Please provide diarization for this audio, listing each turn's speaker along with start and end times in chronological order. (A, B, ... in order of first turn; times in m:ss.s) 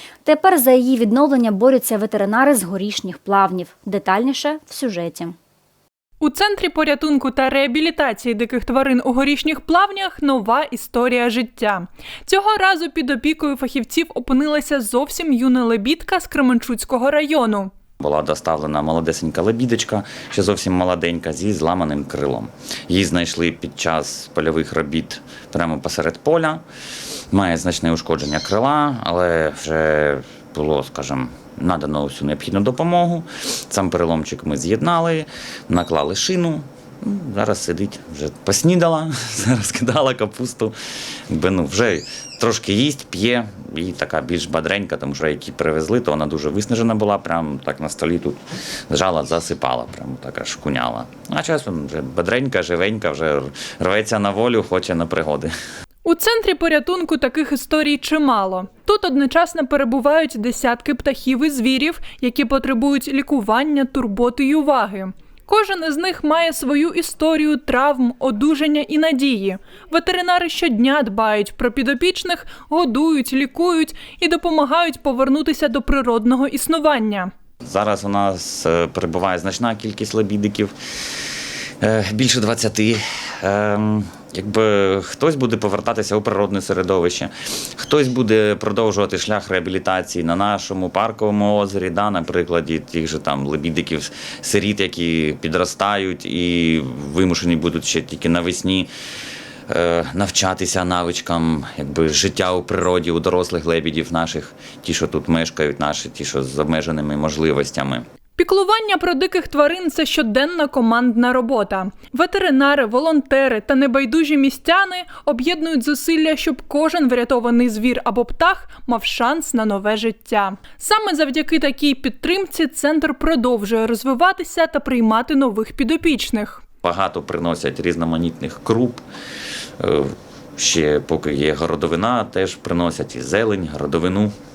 0:00.2-0:05.3 A
0:06.2-0:17.7 B
0:18.0-0:26.6 C
0:27.3-0:40.7 C
0:41.3-0:48.4 C
0:48.9-0:55.5 C
0:56.0-1:17.3 B
1:17.6-1:20.7 C
1:21.8-1:38.9 C
1:39.7-1:48.0 C
1:48.4-2:06.6 B
2:06.8-2:09.0 C
2:09.8-2:14.3 C